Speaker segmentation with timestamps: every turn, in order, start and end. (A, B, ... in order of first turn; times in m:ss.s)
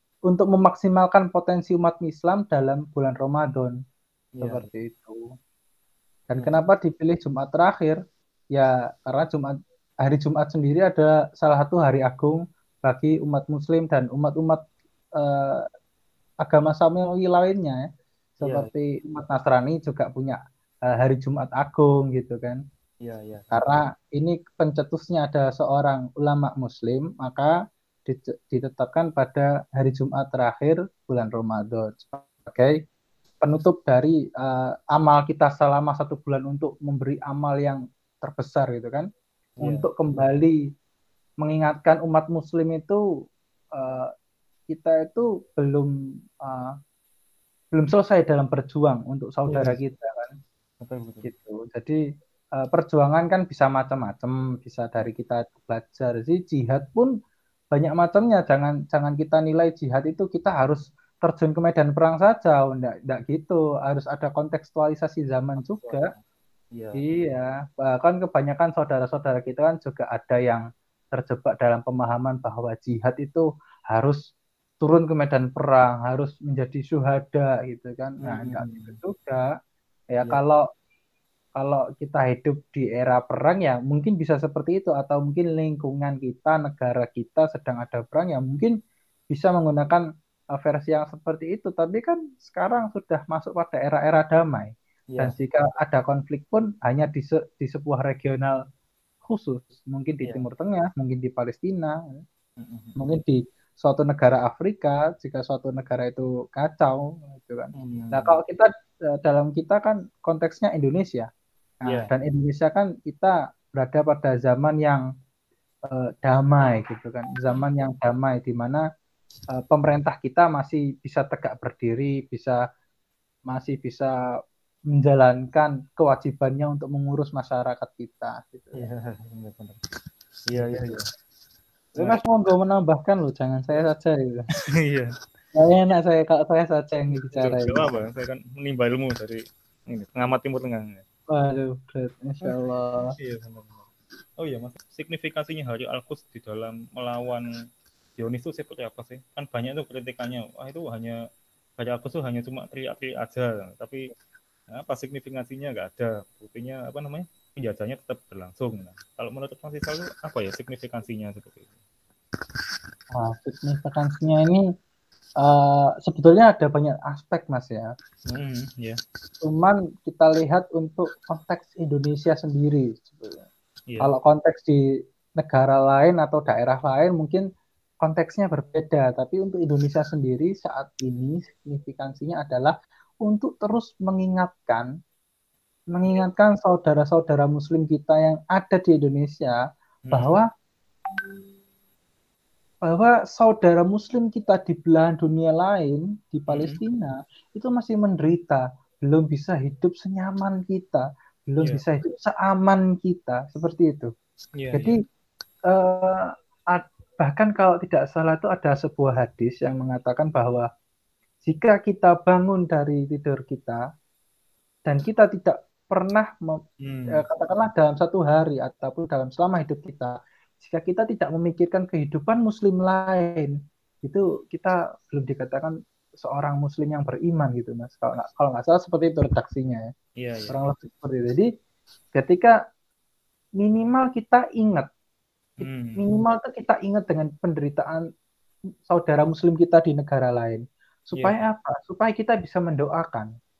0:00.3-0:03.7 A
0:04.4-0:04.7 B
0:04.4-0:05.2 A
0:06.3-0:08.0 A
0:08.5-0:14.6 A
0:15.2-0:15.6 A
0:16.4-0:17.8 A
0:18.4-0:22.6 A
0:18.4-0:18.7 B
0:23.0-0:23.7 B
0:23.5-0:27.5 A
0:28.0-0:32.7 A
0:33.4-0:39.1 A
0:39.6-0:39.9 B
0:39.6-0:40.6 A
0:41.4-0:43.0 A
0:43.7-0:44.1 A
0:44.7-0:45.9 A
0:46.4-0:46.7 A
0:47.7-0:50.4 A
0:49.5-0:49.8 B
0:50.8-0:51.3 B
0:51.2-0:52.0 A
0:52.6-0:57.1 A
0:57.7-1:06.1 A
1:05.6-1:06.2 B
1:06.7-1:07.0 B
1:07.0-1:14.2 A
1:14.8-1:19.5 A
1:18.2-1:19.0 B
1:20.1-1:20.6 A
1:21.6-1:28.7 A
1:29.3-1:30.0 A
1:30.5-1:38.6 A
1:39.2-1:42.2 A
1:42.6-1:43.0 B
1:43.0-1:51.3 A
1:47.7-1:48.4 B
1:51.9-1:55.0 A
1:55.8-1:58.8 A
1:59.5-2:02.6 A
2:03.5-2:04.1 A
2:04.9-2:08.8 A
2:08.8-2:09.8 B
2:10.5-2:11.0 B
2:10.5-2:11.0 A
2:12.0-2:14.4 A
2:12.0-2:12.2 B
2:14.8-2:15.1 B
2:15.5-2:18.0 A
2:17.3-2:21.0 B
2:21.3-2:23.1 A
2:23.2-2:27.4 B
2:28.2-2:31.2 B
2:31.8-2:34.1 B
2:34.7-2:41.7 B
2:43.1-2:44.6 A
2:45.4-2:47.9 A
2:48.3-2:49.0 B
2:49.4-2:53.5 A
2:54.0-2:54.8 A
2:55.4-2:57.4 A
2:58.0-3:04.9 A
3:05.9-3:09.6 A
3:10.1-3:10.4 B
3:10.1-3:10.5 A
3:12.8-3:24.1 A
3:16.5-3:16.8 B
3:24.6-3:25.0 B
3:24.7-3:25.0 A
3:25.7-3:30.6 A
3:31.4-3:33.8 A
3:34.9-3:36.6 A
3:36.8-3:37.2 B
3:37.1-3:49.9 A
3:50.2-3:50.6 B
3:50.5-3:51.4 A
3:52.1-3:52.5 A
3:53.6-3:54.9 A
3:55.6-3:56.0 B
3:55.6-3:58.0 A
3:58.9-4:03.3 A